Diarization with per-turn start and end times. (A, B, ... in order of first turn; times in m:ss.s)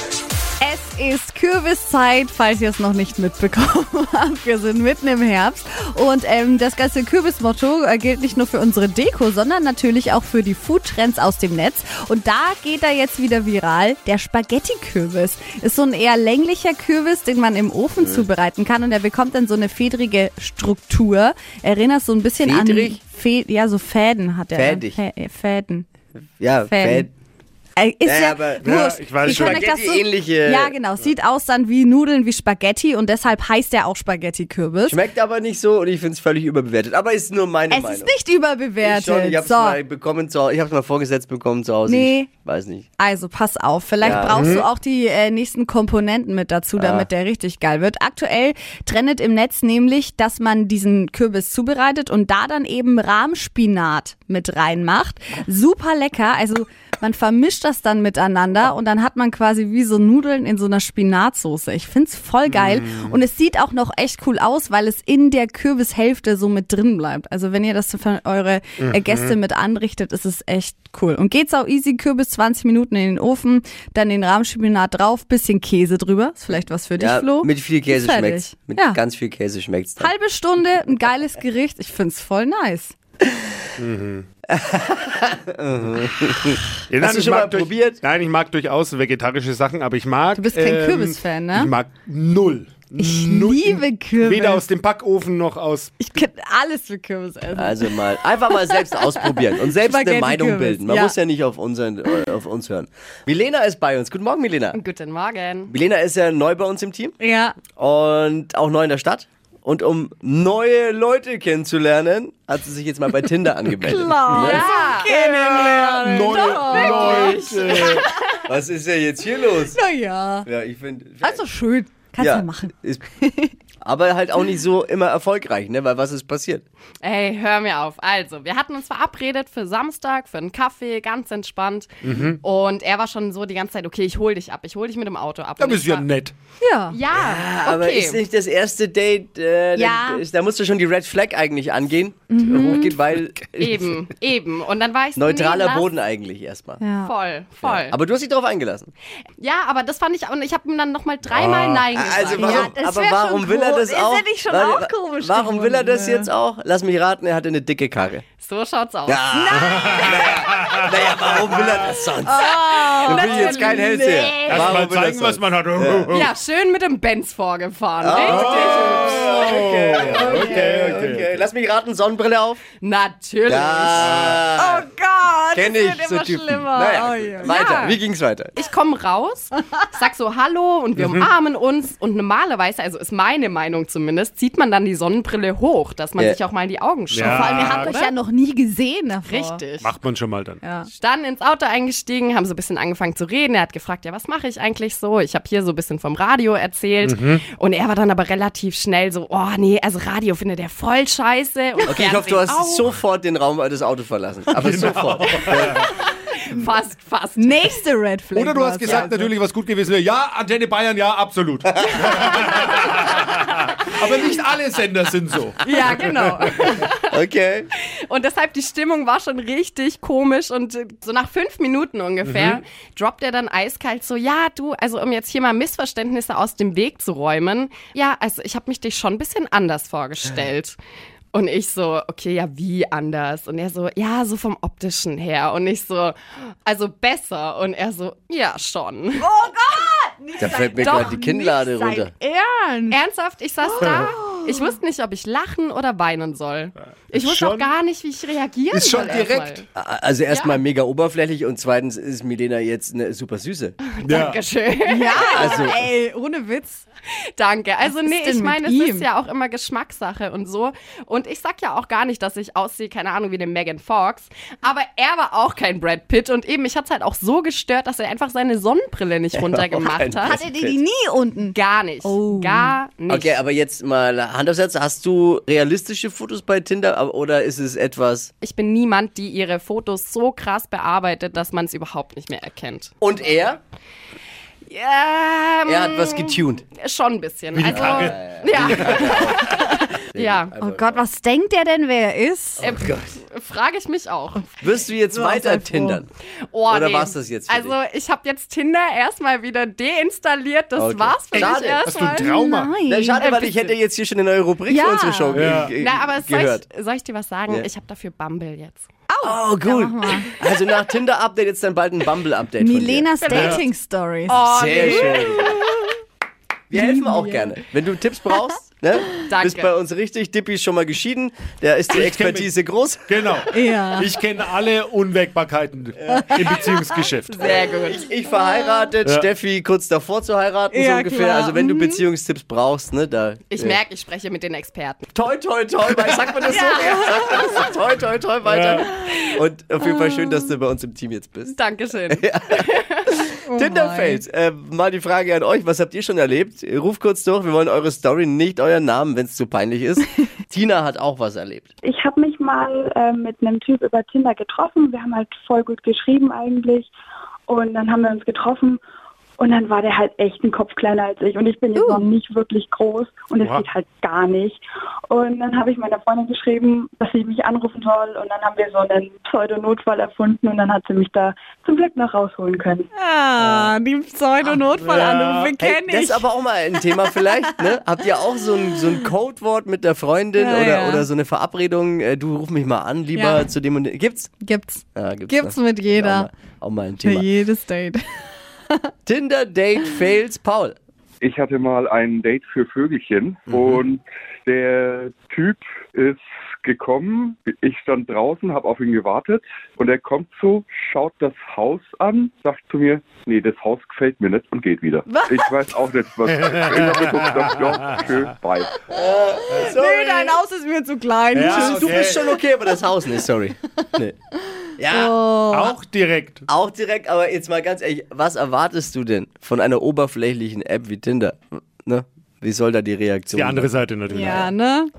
0:00.6-0:25.9 A
0:18.0-0:18.3 B
0:22.4-0:23.0 B
0:24.6-0:25.0 B
0:26.4-0:27.1 B
0:26.6-0:27.1 A
0:27.8-0:35.0 A
0:28.0-0:30.8 B
0:28.6-0:29.6 C
0:34.9-0:38.1 B
0:37.7-0:39.8 A
0:38.8-0:42.9 B
0:41.9-0:42.3 A
0:43.0-1:19.0 A
0:44.0-0:44.4 B
0:44.2-0:44.6 C
0:46.8-0:47.1 B
1:02.5-1:03.2 C
1:08.8-1:09.4 C
1:17.0-1:20.1 B
1:20.0-1:23.0 A
1:23.3-1:23.5 B
1:23.8-1:24.3 C
1:24.5-1:28.0 B
1:26.9-1:36.1 C
1:30.4-1:31.7 A
1:33.0-1:34.6 A
1:36.0-1:41.2 A
1:37.6-1:44.8 B
1:44.8-1:45.7 D
1:45.7-1:47.1 B
1:47.2-1:47.6 A
1:47.8-1:54.7 B
1:53.8-1:57.4 A
1:54.4-1:55.1 D
1:55.1-1:58.0 C
1:56.4-1:58.2 D
1:58.5-1:59.8 B
1:59.7-2:00.5 A
2:00.4-2:01.4 B
2:01.2-2:03.5 A
2:02.2-2:03.0 B
2:03.8-2:06.6 B
2:07.0-2:11.9 D
2:12.0-2:12.4 C
2:12.4-2:16.1 D
2:15.6-2:16.4 C
2:16.6-2:17.0 A
2:16.8-2:18.2 D
2:17.2-2:23.8 B
2:19.8-2:20.2 A
2:22.3-2:22.9 A
2:23.6-2:25.9 D
2:25.2-2:26.8 B
2:26.8-2:27.1 A
2:27.0-2:27.9 D
2:27.6-2:28.9 B
2:29.4-2:32.5 D
2:31.3-2:38.2 B
2:32.3-2:36.3 A
2:38.4-2:39.2 D
2:39.1-2:46.1 B
2:39.3-2:40.1 A
2:39.7-2:41.2 C
2:42.2-2:44.5 A
2:42.6-2:44.5 D
2:44.4-2:46.3 C
2:46.1-2:48.8 D
2:48.0-2:52.6 B
2:48.1-2:51.4 C
2:52.8-2:54.1 D
2:53.5-2:54.9 B
2:54.0-2:54.4 C
2:54.6-2:57.9 A
2:55.5-2:58.5 B
2:58.6-3:08.1 D
3:01.0-3:01.3 C
3:07.1-3:08.0 C
3:07.2-3:09.6 A
3:09.2-3:10.0 D
3:09.8-3:10.6 C
3:10.6-3:10.9 A
3:10.9-3:22.8 D
3:17.0-3:17.4 C
3:21.9-3:25.8 B
3:24.5-3:25.8 C
3:25.9-3:27.6 D
3:27.4-3:29.3 A
3:28.4-3:36.7 C
3:35.6-3:36.7 A
3:37.1-3:37.7 B
3:38.1-3:50.8 D
3:42.3-3:42.6 C
3:51.3-3:56.2 D
3:56.7-3:59.3 D
3:59.2-4:03.0 A
4:00.4-4:02.1 B
4:02.9-4:09.6 D
4:03.8-4:04.7 A
4:07.1-4:07.7 C
4:08.7-4:09.6 C
4:09.8-4:13.8 B
4:10.3-4:10.6 D
4:13.8-4:15.6 D
4:14.0-4:14.4 C
4:14.9-4:16.8 A
4:15.3-4:15.8 B
4:17.4-4:30.3 D
4:17.8-4:19.1 A
4:29.4-4:30.8 B
4:30.2-4:32.8 A
4:31.5-4:33.3 D
4:33.1-4:38.3 B
4:38.4-4:42.9 D
4:43.0-4:43.6 B
4:44.7-4:50.5 D
4:45.7-4:46.6 B
4:47.5-4:49.1 C
4:47.7-4:51.0 B
4:50.6-4:52.6 A
4:52.6-4:53.1 B
4:52.6-4:54.5 D
4:54.6-4:56.1 B
4:55.1-4:56.0 A
4:56.5-5:02.3 D
4:56.7-4:57.8 B
5:00.8-5:01.9 B
5:01.3-5:02.8 C
5:02.2-5:03.5 A
5:02.9-5:06.6 B
5:03.2-5:03.6 D
5:04.7-5:05.5 A
5:05.3-5:05.7 C
5:05.8-5:08.9 D
5:09.1-5:10.3 A
5:09.2-5:13.1 B
5:12.6-5:15.1 A
5:13.2-5:13.6 D
5:13.3-5:13.6 C
5:14.3-5:15.3 D
5:14.4-5:15.7 B
5:16.7-5:23.4 B
5:16.7-5:17.6 A
5:19.3-5:19.7 D
5:21.9-5:22.5 C
5:23.1-5:27.5 C
5:23.5-5:24.1 A
5:26.0-5:26.6 B
5:26.1-5:26.8 A
5:27.3-5:28.0 D
5:27.4-5:33.8 B
5:28.3-5:28.9 A
5:30.7-5:32.0 A
5:33.5-5:35.0 D
5:35.1-5:41.6 B
5:36.5-5:37.6 A
5:36.7-5:36.9 D
5:38.4-5:38.8 C
5:40.1-5:40.4 A
5:41.5-5:43.1 D
5:42.2-5:51.7 B
5:43.4-5:44.2 A
5:52.0-5:55.3 E
5:56.1-5:56.9 E
5:57.6-5:58.8 E
6:00.4-6:04.6 E
6:01.8-6:02.1 A
6:03.4-6:03.7 C
6:05.2-6:12.8 E
6:13.0-6:16.3 A
6:13.4-6:13.7 B
6:14.7-6:15.5 C
6:15.6-6:24.3 B
6:16.8-6:17.8 A
6:20.4-6:21.1 A
6:23.1-6:23.5 A
6:24.4-6:26.3 A
6:25.0-6:27.3 B
6:27.0-6:28.9 A
6:29.1-6:30.8 B
6:31.2-6:48.8 F
6:33.5-6:33.8 B
6:45.1-6:45.6 A
6:46.3-6:48.3 C
6:48.9-6:50.4 B
6:49.5-6:52.0 A
6:51.3-6:52.2 C
6:51.5-6:54.1 B
6:54.8-6:55.2 B
6:54.9-6:55.8 A
6:55.5-6:56.5 C
6:56.5-7:03.7 B
7:03.3-7:04.5 C
7:04.1-7:04.9 A